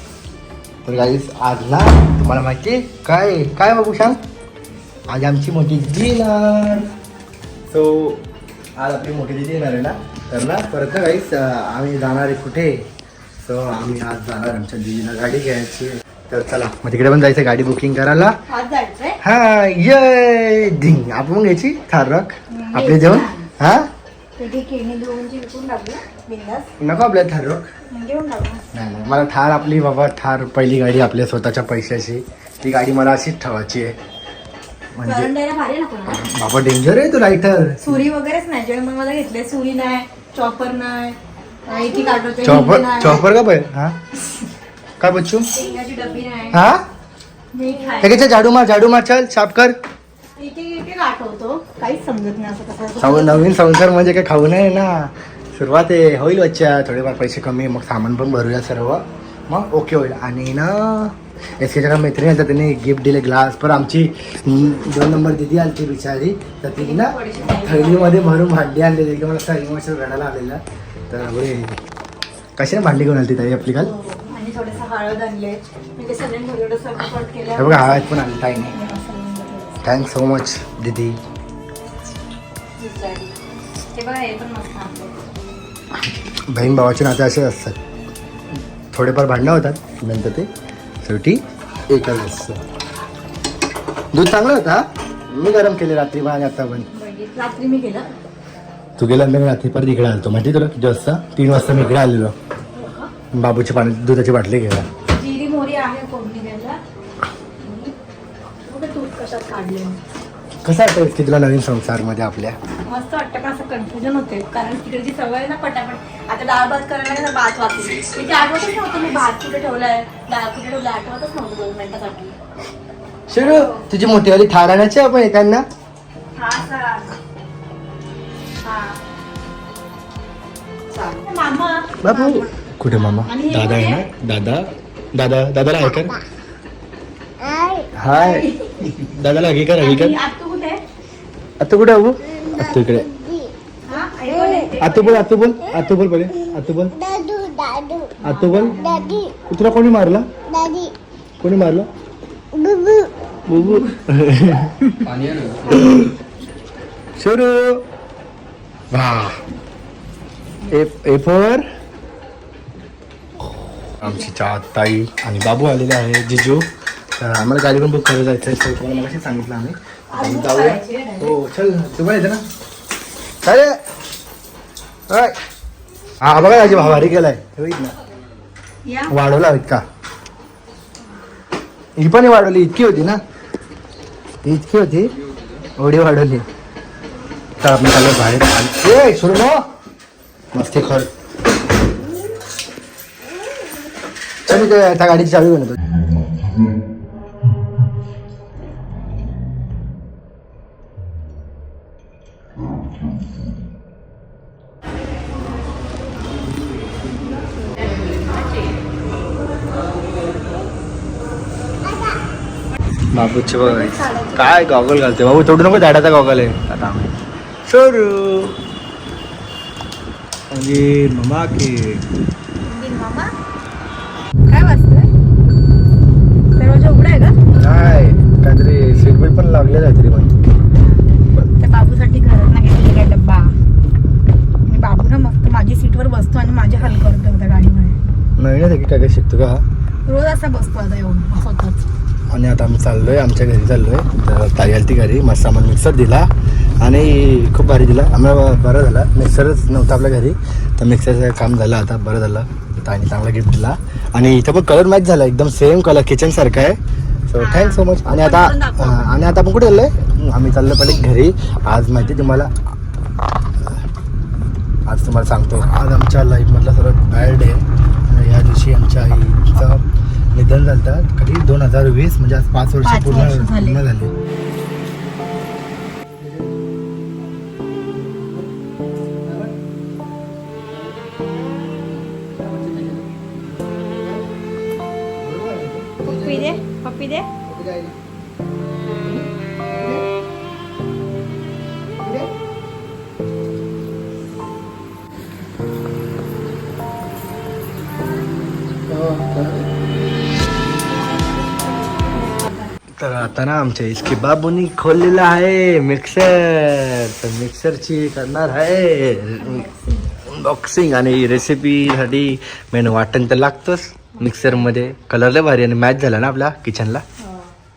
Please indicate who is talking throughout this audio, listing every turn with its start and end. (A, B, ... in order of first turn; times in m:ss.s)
0:00.8-0:04.2 A
0:05.1-0:06.9 A
0:07.7-0:08.2 A
0:08.8-0:12.7 A
0:13.4-0:18.3 A
0:18.5-0:19.2 B
0:19.2-0:23.9 A
0:22.5-0:23.5 B
0:24.4-0:26.7 B
0:26.8-0:27.7 A
0:27.9-0:28.6 B
0:28.7-0:33.9 A
0:34.9-0:35.3 A
0:35.0-0:36.2 B
0:36.1-0:38.0 A
0:37.8-0:43.3 B
0:42.4-0:44.0 A
0:45.0-0:45.5 A
0:45.5-0:46.7 B
0:46.5-0:46.8 A
0:47.5-0:48.2 B
0:48.0-0:49.7 A
0:50.4-0:53.5 B
0:53.0-1:11.8 A
1:06.8-1:08.3 B
1:12.6-1:13.9 A
1:13.8-1:19.8 B
1:17.5-1:18.7 A
1:19.8-1:21.2 A
1:22.8-1:23.3 B
1:23.9-1:25.3 B
1:26.5-1:27.8 A
1:28.9-1:30.5 A
1:31.0-1:32.6 A
1:34.1-1:36.9 A
1:36.9-1:38.1 B
1:39.0-1:42.3 A
1:42.7-1:43.1 B
1:43.3-1:44.8 A
1:45.1-1:46.8 B
1:47.6-1:47.9 B
1:48.6-1:50.0 B
1:50.6-1:52.6 A
1:52.9-2:02.4 B
2:03.3-2:05.6 A
2:03.4-2:03.8 B
2:06.4-2:07.2 B
2:08.6-2:09.0 B
2:10.9-2:12.5 B
2:12.0-2:16.2 A
2:13.2-2:14.1 B
2:17.9-2:20.2 A
2:18.1-2:18.7 B
2:19.8-2:20.8 B
2:21.6-2:23.1 A
2:23.8-2:25.3 B
2:24.8-2:27.0 A
2:27.1-2:28.1 C
2:28.2-2:29.3 B
2:28.2-2:28.8 A
2:29.4-2:30.2 A
2:30.5-2:30.9 C
2:31.4-2:31.9 A
2:32.6-2:33.1 C
2:33.5-2:35.0 A
2:35.7-2:36.1 A
2:37.2-2:37.8 A
2:38.9-2:39.4 A
2:40.7-2:41.6 A
2:44.0-2:46.6 A
2:47.2-2:52.4 A
2:50.1-2:51.4 B
2:53.4-2:53.8 A
2:55.1-2:55.4 A
2:56.2-2:57.9 A
2:56.5-2:57.1 B
2:58.8-2:59.1 B
2:59.1-2:59.8 A
3:02.0-3:03.2 A
3:04.4-3:05.1 A
3:05.8-3:06.4 A
3:07.6-3:09.6 A
3:10.5-3:11.1 A
3:14.4-3:15.8 A
3:33.1-3:37.2 A
3:33.6-3:34.7 B
3:37.7-3:38.6 A
3:40.5-3:42.0 A
3:42.6-3:43.3 B
3:44.4-3:45.1 B
3:46.5-3:47.4 B
3:47.5-3:50.4 A
3:50.8-3:53.6 B
3:54.7-3:58.0 B
3:58.4-3:59.6 A
4:00.0-4:01.8 B
4:02.3-4:06.3 A
4:06.8-4:22.5 A
4:17.4-4:19.2 B
4:24.9-4:34.1 A
4:32.8-4:33.8 B
4:36.2-4:36.6 A
4:37.9-4:38.5 A
4:39.2-4:39.5 A
4:40.7-4:41.2 A
4:41.9-4:44.3 A
4:45.2-4:46.6 A
4:46.0-4:47.3 B
4:47.4-4:47.9 A
4:49.0-4:50.0 A
4:52.0-4:52.3 A
4:58.9-4:59.7 A
5:02.0-5:02.8 B
5:03.0-5:09.6 A
5:09.4-5:10.1 B
5:10.2-5:17.0 A
5:14.1-5:14.7 B
5:17.2-5:17.5 B